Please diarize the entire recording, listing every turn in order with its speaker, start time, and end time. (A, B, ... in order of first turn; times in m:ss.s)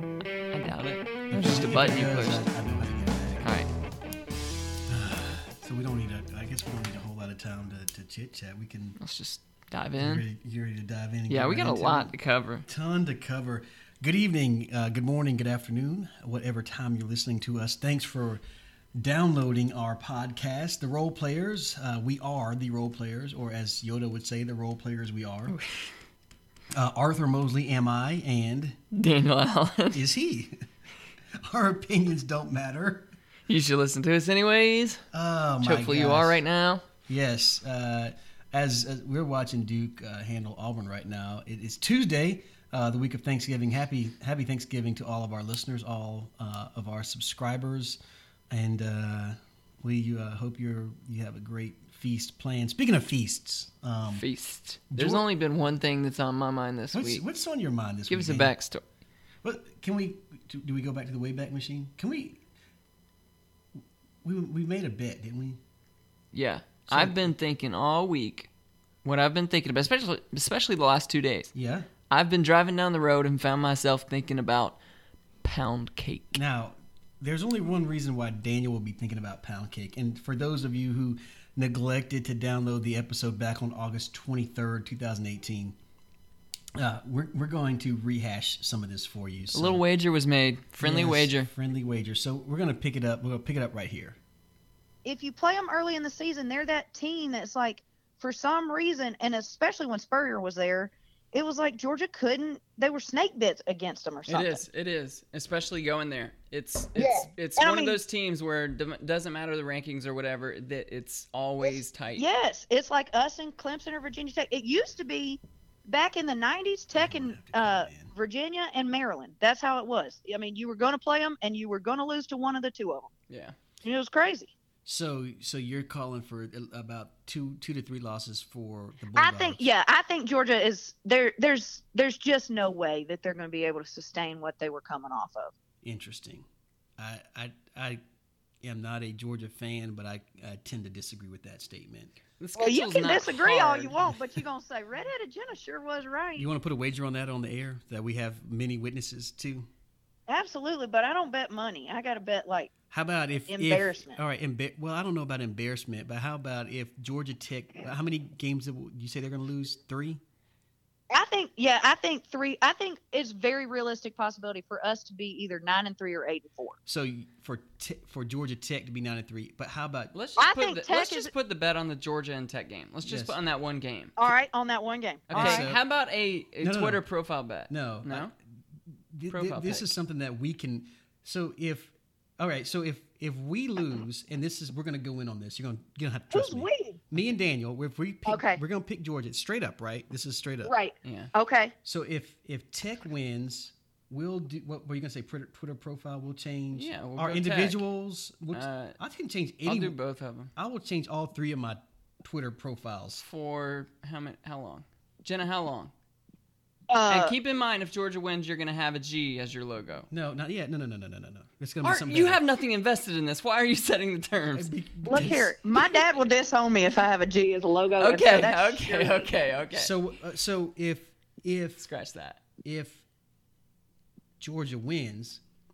0:00.5-0:02.5 A
0:01.3-0:03.6 B
0:03.4-0:03.7 A
0:04.9-0:09.0 B
0:09.0-0:10.2 A
0:10.0-0:12.1 B
0:11.3-0:12.6 A
0:12.6-0:18.4 B
0:18.9-0:25.6 B
0:25.5-0:25.9 A
0:26.7-0:28.8 B
0:28.9-0:30.0 A
0:29.9-0:30.6 B
0:31.3-0:33.1 B
0:33.5-0:35.0 A
0:35.1-0:36.4 B
0:35.6-0:36.8 A
0:37.1-0:48.0 B
0:48.5-0:54.2 B
0:54.1-0:57.2 A
0:54.9-0:55.3 B
0:56.9-0:58.5 B
0:58.1-0:58.8 A
0:59.4-1:02.4 B
1:04.2-1:05.6 B
1:06.3-1:08.5 A
1:06.9-1:07.3 B
1:09.0-1:11.5 A
1:11.5-1:11.9 B
1:12.1-1:14.8 A
1:15.4-1:16.4 A
1:16.3-1:25.8 B
1:26.8-1:29.8 B
1:29.5-1:31.5 A
1:30.8-1:34.2 B
1:35.0-1:44.6 C
1:44.3-1:52.3 A
1:47.0-1:48.0 C
1:51.6-2:03.1 C
1:57.0-1:58.1 B
2:03.3-2:03.5 A
2:03.8-2:04.5 C
2:04.8-2:09.7 B
2:09.2-2:15.5 C
2:15.8-2:16.4 B
2:17.0-2:18.0 B
2:18.6-2:22.1 B
2:22.4-2:24.1 A
2:22.6-2:26.5 C
2:26.4-2:29.7 B
2:30.3-2:32.7 C
2:32.9-2:40.2 B
2:33.5-2:34.2 C
2:41.1-2:46.8 C
2:46.8-2:50.1 B
2:50.1-2:54.2 A
2:50.4-2:51.3 C
2:53.0-2:53.4 B
2:54.2-2:55.6 C
2:55.3-2:58.3 A
2:55.3-2:55.8 B
2:56.6-2:57.0 B
2:57.7-2:58.3 B
2:59.1-3:10.7 B
2:59.3-2:59.9 A
3:06.3-3:07.0 C
3:08.2-3:08.6 C
3:10.6-3:11.7 C
3:11.0-3:11.3 A
3:11.8-3:20.0 B
3:16.7-3:17.8 A
3:18.5-3:19.0 A
3:19.6-3:20.5 A
3:20.6-3:23.2 B
3:23.2-3:25.9 A
3:26.9-3:27.3 C
3:27.1-3:30.1 A
3:30.1-3:32.4 B
3:31.8-3:34.7 A
3:34.5-3:35.6 B
3:35.0-3:39.3 C
3:38.0-3:39.9 A
3:39.7-3:41.8 B
3:41.8-3:42.4 A
3:42.6-3:43.0 B
3:44.4-3:45.4 B